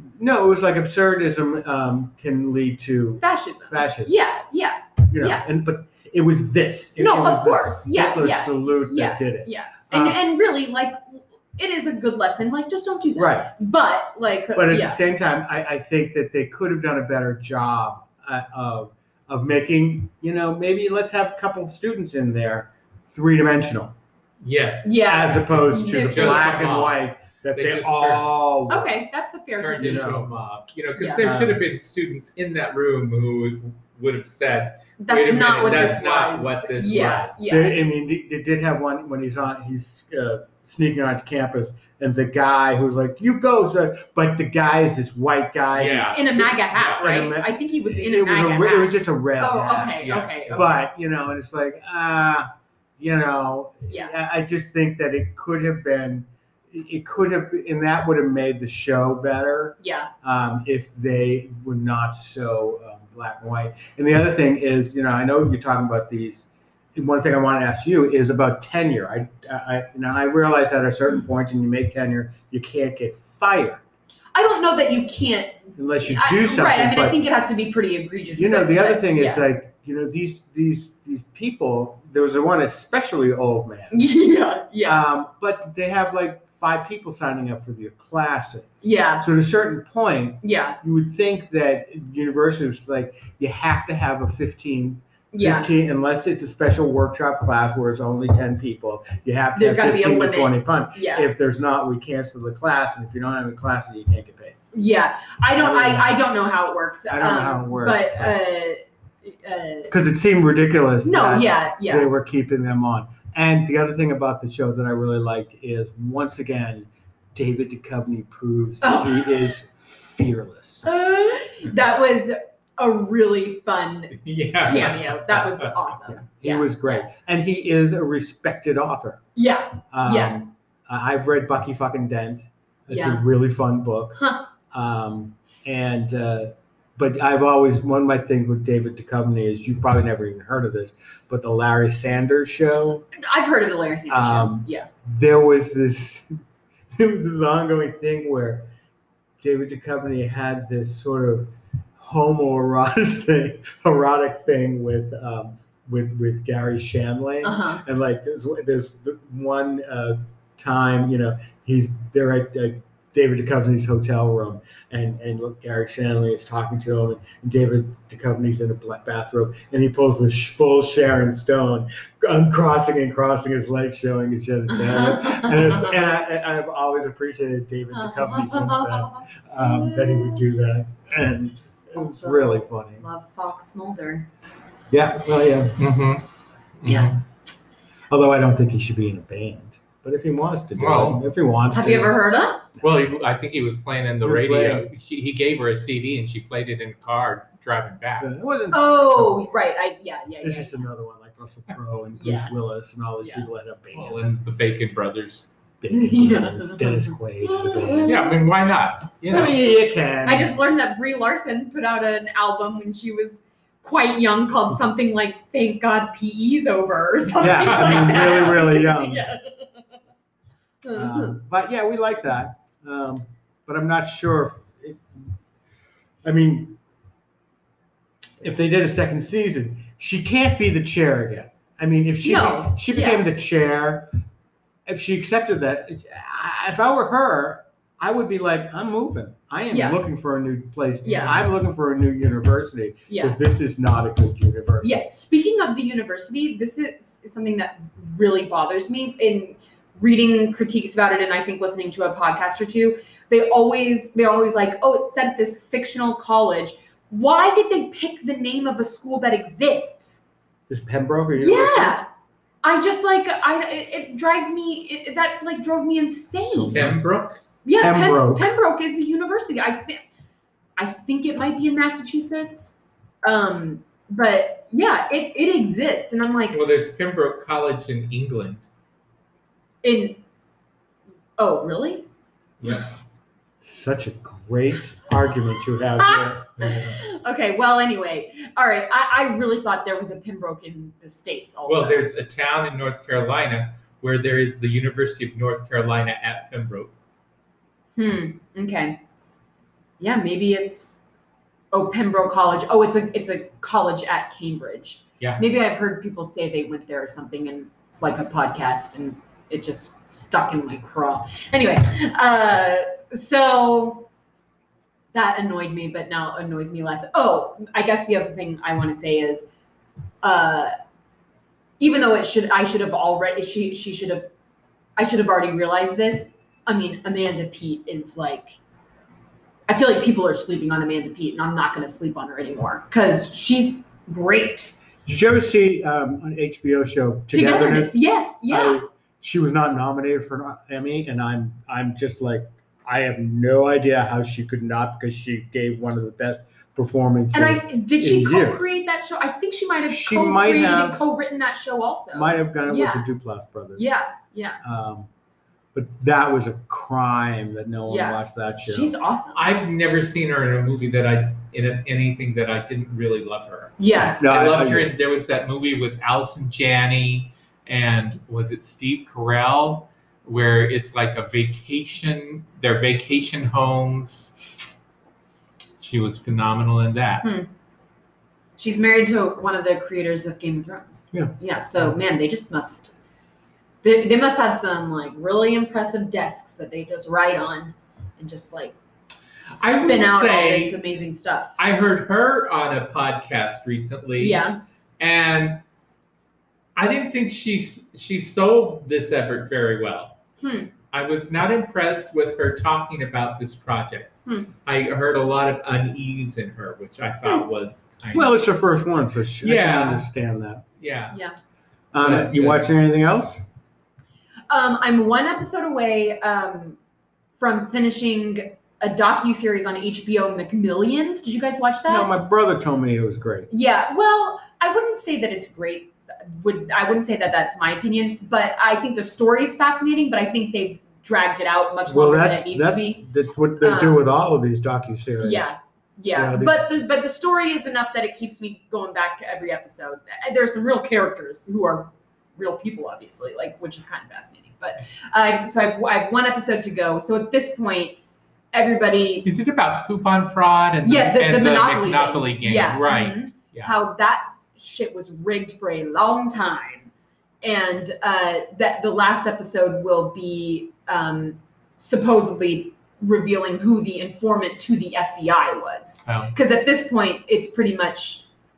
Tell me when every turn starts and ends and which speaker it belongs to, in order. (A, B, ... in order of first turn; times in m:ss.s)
0:00.2-0:04.2 A
0:03.2-0:05.5 B
0:05.1-0:10.2 A
0:07.0-0:15.0 B
0:13.2-0:13.5 A
0:14.5-0:24.0 A
0:24.4-0:27.0 C
0:24.8-0:26.8 B
0:25.0-0:29.0 A
0:27.5-0:28.3 C
0:28.7-0:30.2 B
0:29.6-0:37.4 C
0:29.8-0:30.3 A
0:31.0-0:31.2 B
0:31.2-0:31.6 A
0:35.0-0:37.8 B
0:35.7-0:36.0 A
0:36.9-0:52.5 A
0:45.7-0:46.3 C
0:46.1-0:50.8 B
0:50.0-0:50.8 C
0:53.0-1:13.8 A
0:53.9-0:54.2 B
0:59.8-1:00.1 B
1:14.3-1:19.4 B
1:15.8-1:17.2 A
1:18.4-1:24.1 A
1:23.9-1:25.0 B
1:24.8-1:44.6 A
1:28.8-1:29.3 B
1:30.4-1:30.8 B
1:35.3-1:35.7 B
1:39.6-1:41.3 B
1:44.7-1:49.9 B
1:45.6-1:46.2 A
1:47.1-1:48.4 A
1:49.9-2:00.9 A
1:51.0-1:52.1 B
1:58.8-1:59.6 B
2:00.9-2:07.1 B
2:04.1-2:05.7 C
2:06.1-2:09.2 A
2:09.4-2:10.4 B
2:09.9-2:23.1 A
2:12.9-2:13.2 B
2:14.2-2:14.5 B
2:23.2-2:24.9 B
2:24.1-2:26.3 A
2:26.9-2:28.7 A
2:29.4-3:03.0 A
2:37.4-2:37.8 B
2:54.7-2:56.0 B
2:57.9-3:00.4 B
3:01.8-3:04.3 B
3:04.9-3:06.2 A
3:05.8-3:06.3 C
3:06.8-3:07.2 C
3:06.9-3:07.2 B
3:08.1-3:12.2 A
3:10.8-3:11.2 C
3:11.7-3:12.7 B
3:12.8-3:18.3 C
3:14.2-3:14.9 A
3:18.2-3:19.5 A
3:18.7-3:20.8 B
3:20.4-3:24.4 A
3:22.2-3:22.5 B
3:23.2-3:23.5 B
3:23.9-3:25.5 C
3:25.8-3:28.3 A
3:25.9-3:28.3 B
3:28.0-3:29.6 C
3:29.3-3:30.6 A
3:30.2-3:39.7 B
3:37.4-3:39.3 A
3:37.4-3:38.6 C
3:40.8-3:41.4 B
3:40.9-3:45.0 A
3:46.2-3:46.8 A
3:48.4-3:54.1 A
3:52.2-3:53.2 B
3:54.9-4:05.0 A
3:59.7-4:00.0 B
4:01.0-4:01.5 B
4:03.1-4:03.4 B
4:04.8-4:20.2 B
4:20.7-4:22.0 A
4:21.4-4:22.1 B
4:22.6-4:26.8 B
4:26.5-4:27.0 A
4:26.7-4:27.4 C
4:27.6-4:30.0 B
4:27.8-4:28.5 A
4:30.8-4:36.6 B
4:36.5-4:38.7 C
4:39.8-4:40.2 B
4:41.4-4:42.1 B
4:43.6-4:47.0 A
4:46.0-4:52.1 B
4:51.7-4:56.9 C
4:58.0-4:59.0 B
5:00.0-5:01.0 B
5:01.7-5:14.1 B
5:15.1-5:19.5 B
5:20.2-5:20.7 B
5:21.8-5:24.3 B
5:25.0-5:28.6 B
5:29.7-5:34.8 B
5:35.1-5:48.6 A
5:37.3-5:38.8 B
5:47.3-5:53.1 B
5:49.9-5:51.0 A
5:52.1-5:53.9 A
5:53.8-5:54.6 B
5:54.6-5:55.1 A
5:55.7-5:58.9 A
5:57.9-5:59.4 B
5:59.3-6:14.3 C
6:03.8-6:04.2 B
6:04.1-6:04.9 A
6:15.8-6:17.3 C
6:17.2-6:17.5 B
6:18.6-6:23.0 B
6:23.8-6:28.8 B
6:29.5-6:30.8 C
6:29.5-6:31.6 B
6:31.6-6:34.4 C
6:34.2-6:34.6 B
6:35.0-6:35.6 C
6:36.8-6:40.2 C
6:40.4-6:40.7 B
6:40.9-6:44.1 C
6:44.3-6:44.5 B
6:44.6-6:48.4 C
6:48.1-6:50.6 A
6:49.4-6:50.1 C
6:50.8-6:51.2 C
6:51.9-6:53.4 A
6:52.0-6:52.7 C
6:54.5-6:56.8 B
6:57.4-7:02.1 B
7:01.9-7:03.5 A
7:03.5-7:13.0 B
7:11.9-7:15.6 A
7:13.6-7:14.0 B
7:15.2-7:28.0 B
7:16.2-7:16.7 A
7:28.5-7:29.3 B
7:29.2-7:33.7 C
7:30.8-7:36.9 B
7:37.4-7:48.3 B
7:46.1-7:46.3 C